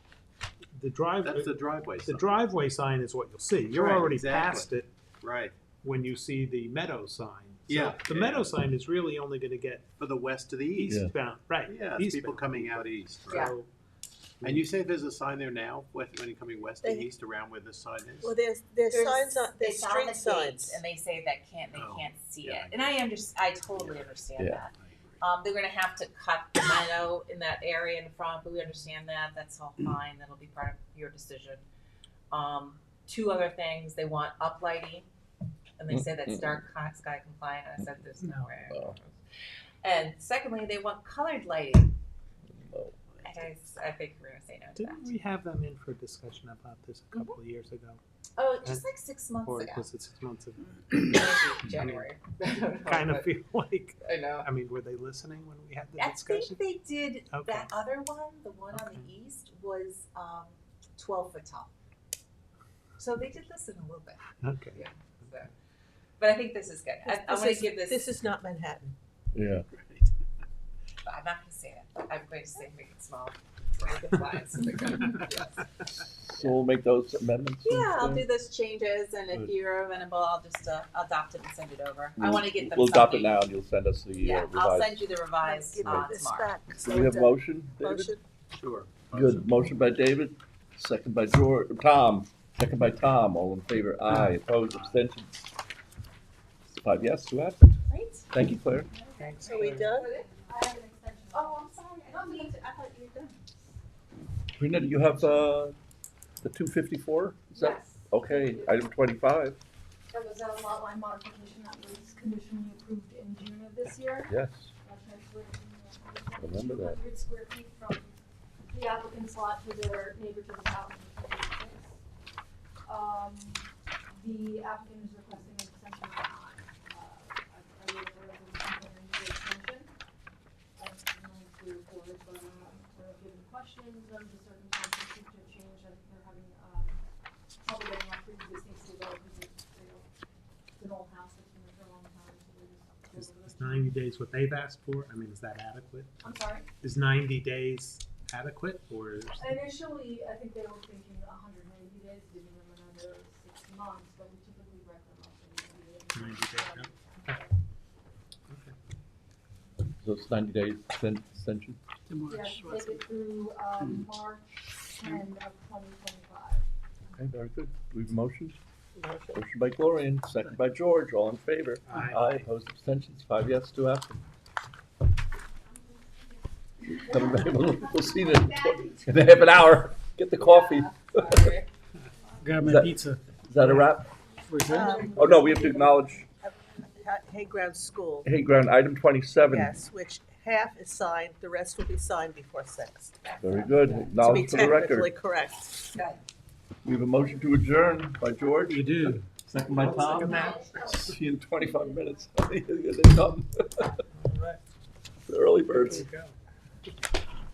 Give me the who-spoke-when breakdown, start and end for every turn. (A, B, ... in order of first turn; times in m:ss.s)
0:00.7-0:04.9 A
0:01.2-0:02.4 B
0:03.7-0:05.5 B
0:05.8-0:09.9 A
0:07.7-0:08.5 B
0:10.0-0:11.0 B
0:10.7-0:13.7 A
0:11.6-0:13.5 B
0:14.4-0:18.4 B
0:16.8-0:17.1 C
0:18.2-0:20.8 C
0:18.9-0:31.6 D
0:21.7-0:23.1 B
0:23.7-0:24.0 B
0:24.9-0:25.2 B
0:32.3-0:35.1 D
0:35.8-0:39.2 D
0:35.9-0:36.6 E
0:38.7-0:39.0 E
0:39.8-0:41.9 D
0:42.6-0:43.0 E
0:43.2-0:45.1 D
0:44.7-0:48.0 A
0:48.4-0:49.8 D
0:49.4-0:52.1 A
0:50.9-0:53.3 D
0:52.8-0:56.6 A
0:54.0-0:54.4 D
0:56.0-1:01.7 D
0:57.3-0:57.7 A
0:58.7-0:59.1 A
1:03.0-1:05.5 D
1:04.4-1:04.8 A
1:06.2-1:08.1 D
1:07.0-1:08.9 C
1:09.3-1:09.6 E
1:09.7-1:10.1 B
1:11.0-1:15.7 D
1:16.2-1:18.2 E
1:17.6-1:23.4 D
1:22.2-1:25.0 E
1:24.2-1:26.5 D
1:25.4-1:28.2 C
1:25.8-1:26.1 E
1:26.8-1:28.1 E
1:28.5-1:29.4 B
1:29.1-1:35.4 E
1:36.7-1:37.8 E
1:37.9-1:38.3 D
1:38.3-1:38.9 E
1:39.0-1:40.4 D
1:39.2-1:40.1 C
1:39.4-1:39.8 A
1:40.1-1:42.6 F
1:41.3-1:43.4 D
1:44.6-1:45.8 E
1:46.4-1:49.6 E
1:47.5-1:48.9 F
1:50.1-2:02.0 F
1:54.3-1:54.7 E
1:56.4-1:57.0 E
2:02.8-2:09.9 F
2:10.8-2:17.0 F
2:17.6-2:20.1 F
2:20.8-2:24.0 F
2:23.1-2:26.2 A
2:26.2-2:26.7 F
2:26.8-2:29.6 A
2:29.4-2:37.6 F
2:36.1-2:37.4 A
2:38.5-2:38.7 A
2:40.0-2:41.8 E
2:42.1-2:43.0 G
2:42.1-2:46.7 F
2:47.2-2:48.6 E
2:49.0-2:49.4 C
2:49.3-2:54.2 E
2:51.9-2:52.2 A
2:56.9-3:01.5 E
3:00.4-3:01.7 D
3:02.4-3:03.9 G
3:02.6-3:04.2 E
3:04.5-3:05.1 G
3:04.5-3:05.9 F
3:04.6-3:05.6 C
3:05.0-3:06.3 E
3:06.4-3:08.3 C
3:08.2-3:09.7 E
3:09.5-3:13.2 C
3:13.2-3:14.2 D
3:13.4-3:15.1 E
3:14.2-3:15.9 C
3:15.9-3:16.2 D
3:16.8-3:24.0 E
3:18.7-3:19.1 G
3:19.7-3:21.0 A
3:20.1-3:20.9 F
3:21.8-3:22.2 F
3:24.1-3:24.6 A
3:25.3-3:26.1 E
3:25.7-3:26.3 A